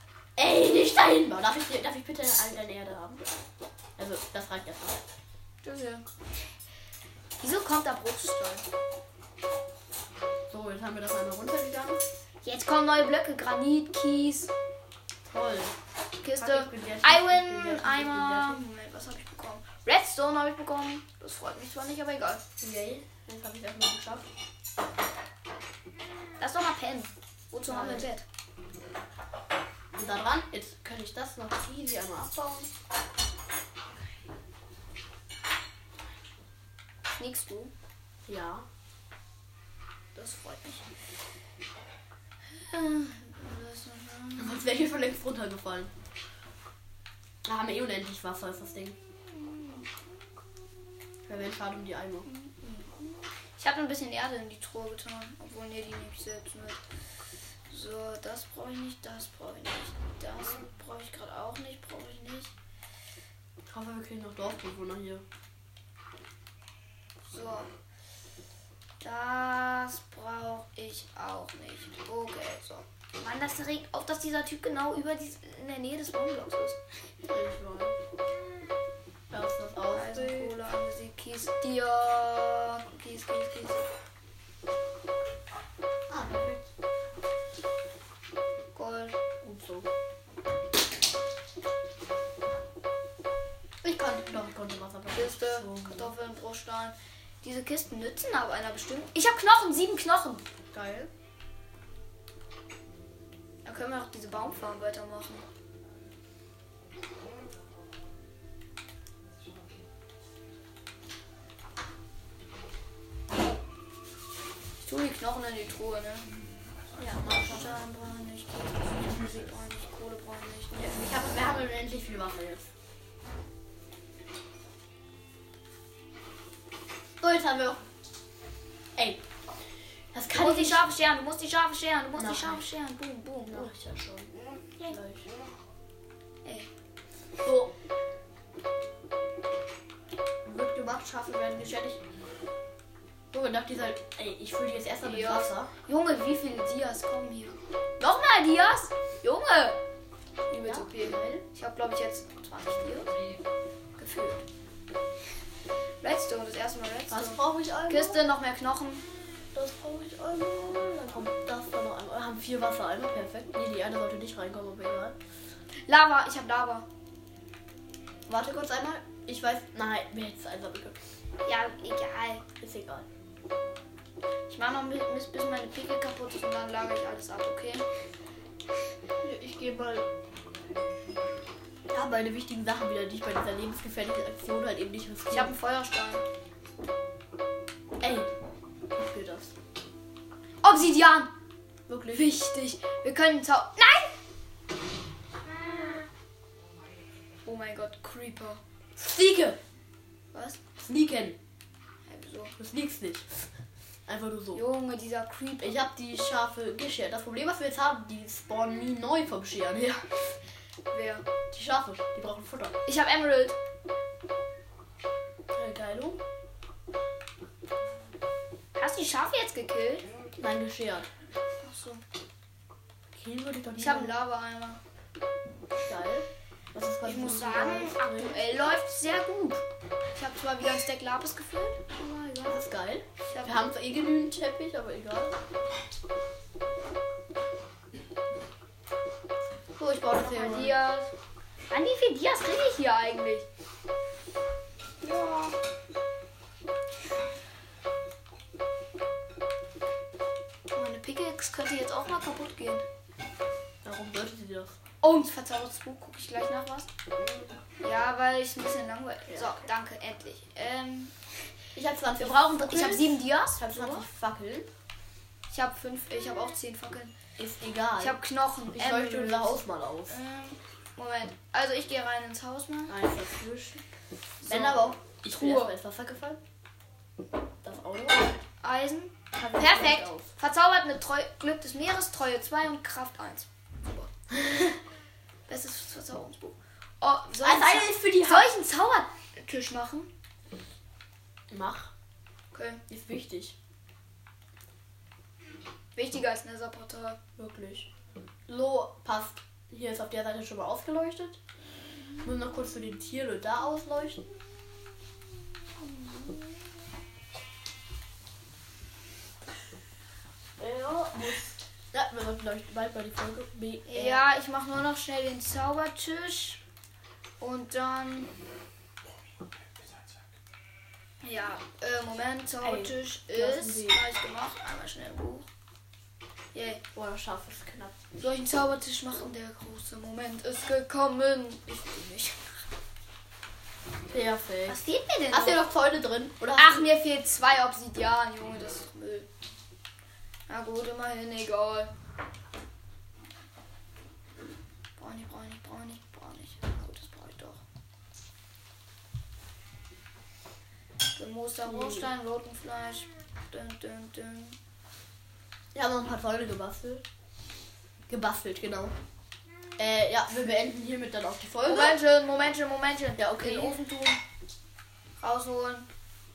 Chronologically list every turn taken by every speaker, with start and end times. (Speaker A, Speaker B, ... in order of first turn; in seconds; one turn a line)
Speaker A: 0.4-3.3
Speaker A: 4.0-5.0
Speaker B: 5.6-6.1
Speaker B: 7.4-8.7
Speaker A: 10.5-12.0
Speaker B: 12.4-14.5
Speaker A: 15.2-15.7
Speaker B: 16.2-22.4
Speaker A: 16.4-18.6
Speaker A: 22.6-24.3
Speaker B: 26.4-28.2
Speaker A: 27.7-28.1
Speaker A: 30.0-32.7
Speaker B: 37.2-37.7
Speaker A: 38.2-38.7
Speaker B: 40.1-40.9
Speaker B: 42.5-44.8
Speaker A: 44.4-45.9
Speaker A: 47.5-49.0
Speaker B: 49.3-49.9
Speaker A: 51.2-52.3
Speaker B: 52.2-56.8
Speaker B: 57.7-62.5
Speaker A: 63.7-65.2
Speaker B: 67.2-67.7
Speaker B: 69.0-76.8
Speaker A: 77.3-78.0
Speaker A: 79.3-80.5
Speaker B: 79.9-83.9
Speaker A: 86.1-86.6
Speaker B: 88.7-89.2
Speaker A: 89.4-89.9
Speaker A: 93.8-96.1
Speaker B: 95.1-100.4
Speaker A: 100.7-101.1
Speaker B: 103.7-105.5
Speaker B: 114.8-116.3
Speaker A: 117.0-117.8
Speaker B: 117.2-121.4
Speaker A: 120.7-122.7
Speaker A: 127.2-127.8
Speaker A: 129.0-129.2
Speaker A: 130.1-130.8
Speaker B: 130.3-133.7
Speaker A: 132.2-132.6
Speaker A: 133.4-135.3
Speaker B: 136.4-136.7
Speaker A: 137.4-137.7
Speaker A: 140.4-142.0
Speaker A: 143.3-145.7
Speaker B: 145.0-149.8
Speaker B: 150.5-153.2
Speaker A: 150.6-151.4
Speaker B: 154.0-154.4
Speaker B: 156.0-159.1
Speaker A: 157.1-158.2
Speaker A: 159.6-165.2
Speaker B: 165.9-166.9
Speaker A: 168.3-171.0
Speaker B: 171.4-172.4
Speaker A: 172.6-173.1
Speaker B: 174.5-177.9
Speaker A: 179.2-180.1
Speaker A: 181.9-185.5
Speaker B: 185.3-186.2
Speaker A: 188.0-188.3
Speaker A: 188.9-189.5
Speaker B: 190.6-191.3
Speaker A: 191.9-192.3
Speaker B: 192.1-194.1
Speaker B: 197.4-198.6
Speaker A: 199.0-199.6
Speaker B: 200.3-200.6
Speaker A: 200.8-201.4
Speaker B: 202.1-202.5
Speaker A: 202.6-203.5
Speaker A: 204.1-204.6
Speaker B: 204.5-205.8
Speaker A: 205.6-210.2
Speaker B: 210.9-211.2
Speaker A: 211.5-212.8
Speaker B: 212.9-213.6
Speaker A: 215.5-216.2
Speaker B: 218.8-220.1
Speaker A: 220.4-221.1
Speaker B: 221.6-222.0
Speaker A: 223.1-224.2
Speaker B: 223.8-224.8
Speaker A: 225.8-228.6
Speaker B: 227.0-229.6
Speaker B: 230.1-232.6
Speaker A: 232.5-235.4
Speaker B: 233.3-233.7
Speaker A: 239.8-240.8
Speaker B: 240.1-241.1
Speaker B: 241.7-243.5
Speaker B: 245.0-245.6
Speaker B: 250.7-252.8
Speaker A: 253.8-254.8
Speaker B: 255.0-256.9
Speaker B: 257.8-261.2
Speaker A: 261.8-264.7
Speaker B: 262.2-264.1
Speaker B: 265.5-267.1
Speaker A: 267.4-268.2
Speaker B: 268.0-273.0
Speaker A: 268.7-270.2
Speaker A: 272.9-273.9
Speaker B: 274.4-275.8
Speaker A: 274.4-276.4
Speaker A: 277.6-278.4
Speaker B: 278.6-284.1
Speaker A: 279.4-280.3
Speaker A: 284.4-284.7
Speaker B: 285.5-290.1
Speaker A: 287.4-288.5
Speaker A: 291.5-291.9
Speaker B: 292.5-292.8
Speaker A: 292.9-293.6
Speaker B: 296.0-297.2
Speaker A: 297.4-297.9
Speaker A: 298.5-301.4
Speaker A: 302.2-304.2
Speaker A: 310.6-314.2
Speaker B: 313.9-316.6
Speaker B: 317.4-318.3
Speaker B: 321.2-325.5
Speaker A: 322.6-324.1
Speaker B: 326.5-326.8
Speaker A: 326.9-328.0
Speaker B: 328.2-332.6
Speaker A: 334.1-336.9
Speaker B: 334.7-335.7
Speaker B: 336.5-339.3
Speaker B: 340.5-341.9
Speaker B: 345.0-347.6
Speaker B: 351.2-354.6
Speaker A: 351.7-352.1
Speaker A: 355.7-357.0
Speaker A: 358.1-358.9
Speaker A: 359.8-362.0
Speaker B: 361.6-364.2
Speaker A: 363.2-363.8
Speaker B: 365.2-365.9